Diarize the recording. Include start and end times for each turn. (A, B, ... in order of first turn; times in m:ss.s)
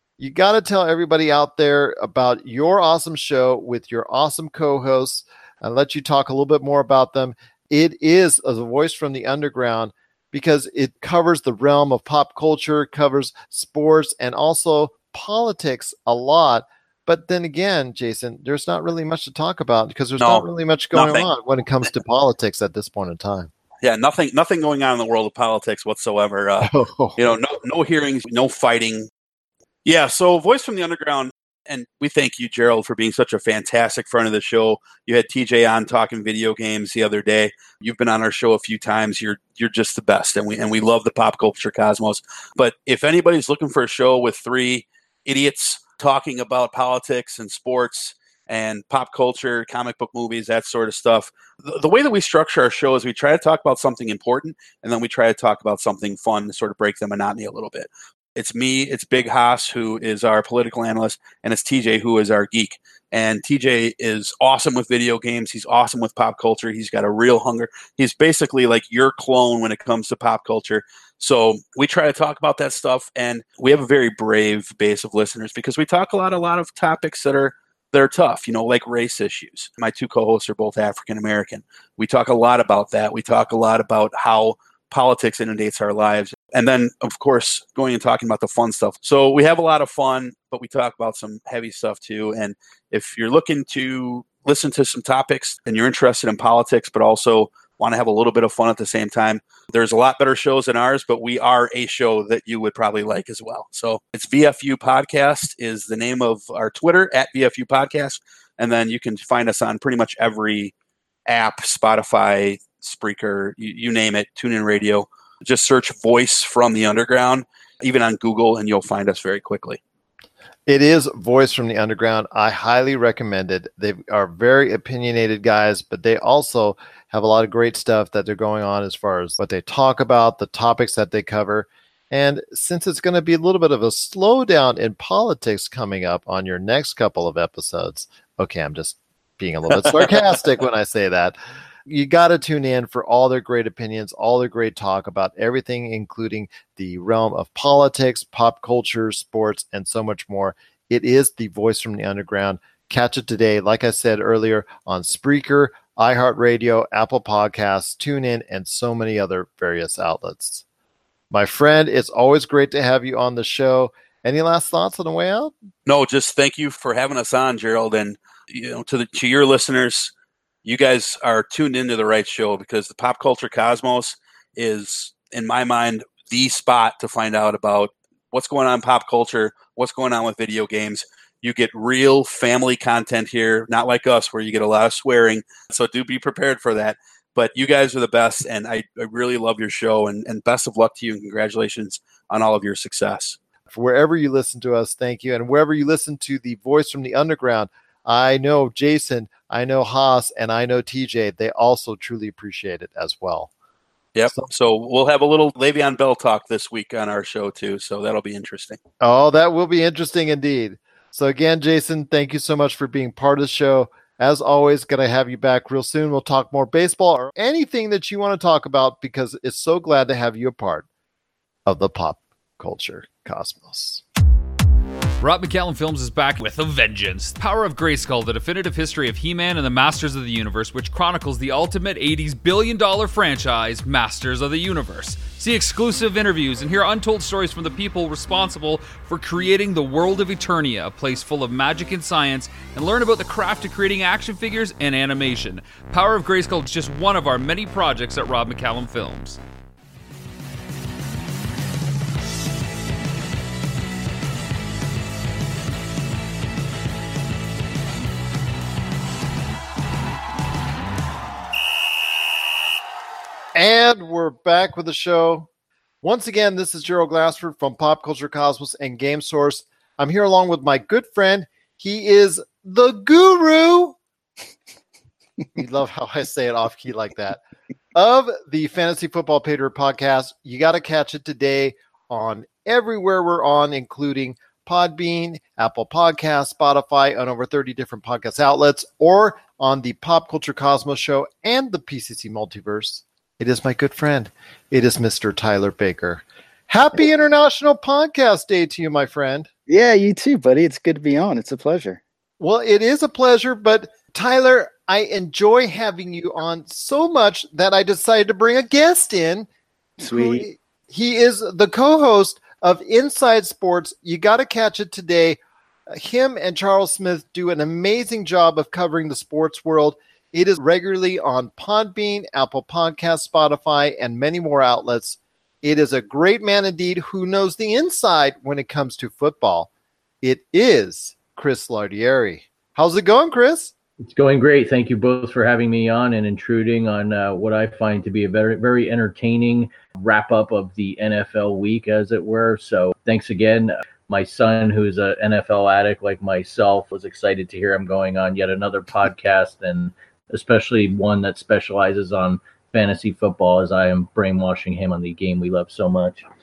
0:00.2-0:23.5 A
0:20.2-0:21.3 B
0:23.8-0:29.1 B
0:26.6-0:27.2 A
0:29.8-1:50.7 B
1:51.2-1:59.8 B
2:00.7-2:40.6 A
2:41.3-2:45.5 A
2:45.9-2:50.1 B
2:50.6-3:13.4 B
3:13.7-3:23.5 A
3:24.1-3:28.8 B
3:29.0-3:40.9 A
3:41.6-3:44.0 A
3:45.2-4:09.4 C
4:23.6-4:25.5 A
4:26.0-4:34.0 A
4:35.6-4:37.4 A
4:37.9-4:59.5 A
4:59.7-5:02.0 D
5:02.4-5:09.5 A
5:10.0-5:15.4 A
5:10.0-5:10.4 D
5:15.9-5:29.7 A
5:30.2-5:33.7 A
5:34.0-5:56.2 E